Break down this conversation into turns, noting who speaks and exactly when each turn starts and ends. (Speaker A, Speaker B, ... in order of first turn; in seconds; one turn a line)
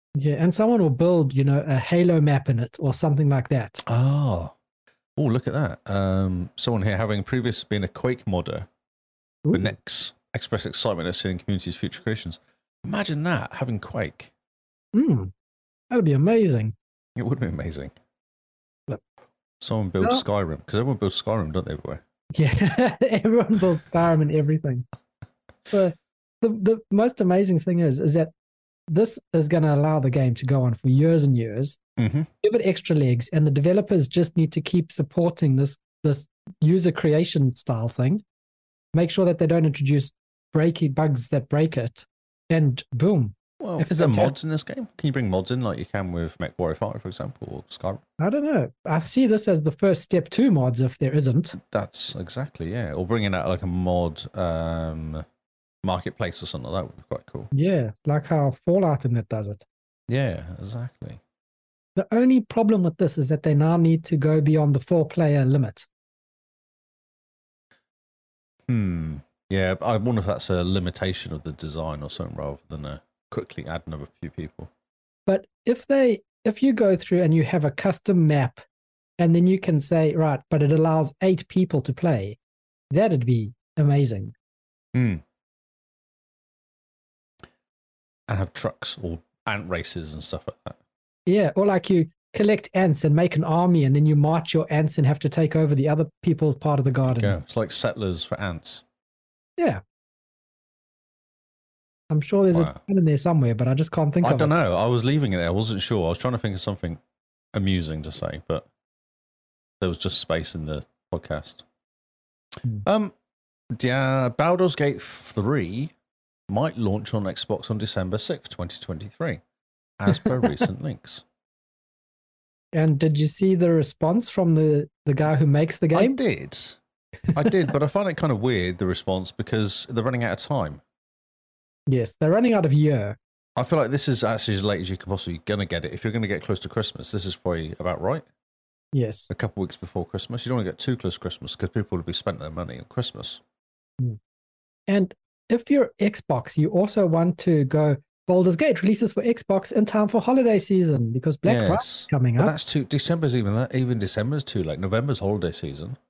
Speaker A: 0.2-3.8
Speaker B: 3.8-4.5
Speaker B: 5.2-8.7
Speaker A: 9.4-9.7
Speaker B: 9.5-14.3
Speaker A: 14.9-15.3
Speaker A: 15.9-16.7
Speaker B: 17.1-17.9
Speaker B: 19.6-22.0
Speaker A: 22.3-24.9
Speaker A: 25.7-28.3
Speaker A: 28.9-31.8
Speaker B: 32.0-32.3
Speaker A: 32.4-38.2
Speaker A: 38.9-44.3
Speaker B: 43.6-48.0
Speaker A: 48.2-51.5
Speaker B: 51.5-55.2
Speaker B: 55.8-57.5
Speaker A: 57.5-59.6
Speaker B: 60.1-61.2
Speaker A: 62.0-65.9
Speaker B: 68.7-74.7
Speaker A: 75.3-78.6
Speaker A: 79.2-82.4
Speaker A: 82.9-84.3
Speaker B: 84.9-85.2
Speaker B: 88.3-90.8
Speaker A: 91.3-97.4
Speaker B: 97.0-98.8
Speaker A: 102.1-104.5
Speaker B: 102.5-102.8
Speaker B: 104.2-107.0
Speaker B: 107.5-108.7
Speaker B: 109.8-111.6
Speaker B: 112.8-113.1
Speaker B: 113.7-115.9
Speaker B: 116.5-119.4
Speaker B: 120.0-121.2
Speaker A: 122.7-126.2
Speaker B: 125.9-126.8
Speaker B: 127.3-130.8
Speaker A: 131.9-133.2
Speaker B: 133.6-138.2
Speaker A: 138.9-139.3
Speaker B: 139.3-143.4
Speaker A: 144.9-152.5
Speaker B: 151.4-156.0